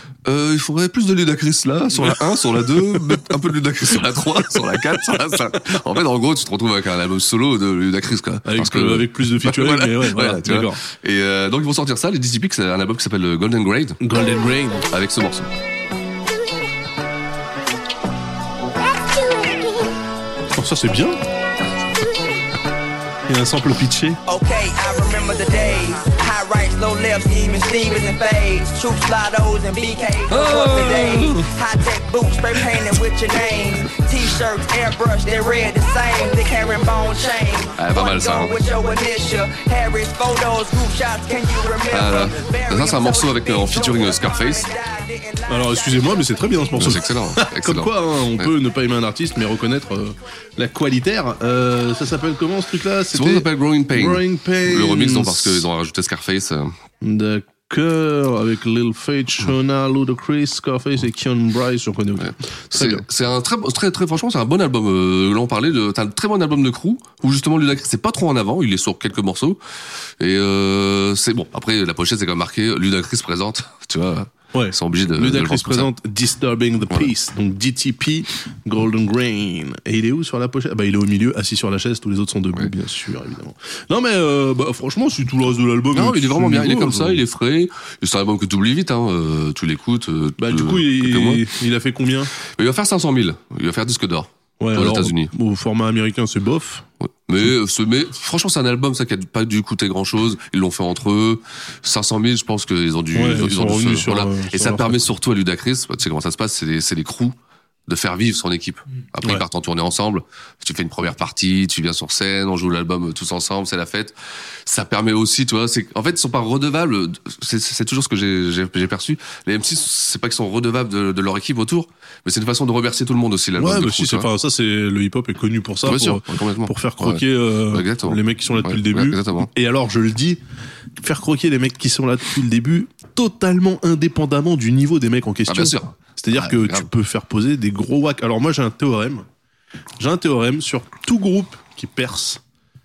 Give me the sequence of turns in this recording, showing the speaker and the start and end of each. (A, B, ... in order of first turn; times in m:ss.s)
0:00.2-0:14.0 A
0:08.4-0:10.8 B
0:14.0-0:14.8 B
0:14.9-0:15.5 A
0:20.6-0:21.2 B
0:23.3-0:24.2 B
0:24.2-0:46.4 C
0:30.3-0:31.4 A
0:37.8-0:38.6 A
0:41.9-0:44.7 A
0:45.5-0:55.7 B
0:46.7-0:48.6 A
0:53.1-0:56.7 A
0:57.0-1:03.0 B
1:02.2-1:09.6 A
1:10.2-1:15.9 A
1:14.5-1:27.2 B
1:25.9-1:31.4 A
1:30.4-1:32.3 B
1:32.4-1:35.3 A
1:34.6-1:36.8 B
1:37.3-1:47.4 A
1:43.1-1:45.0 B
1:47.9-2:04.3 A
2:03.6-2:10.4 B
2:05.8-2:09.5 A
2:11.0-2:19.2 B
2:15.5-2:16.9 A
2:20.0-2:22.4 B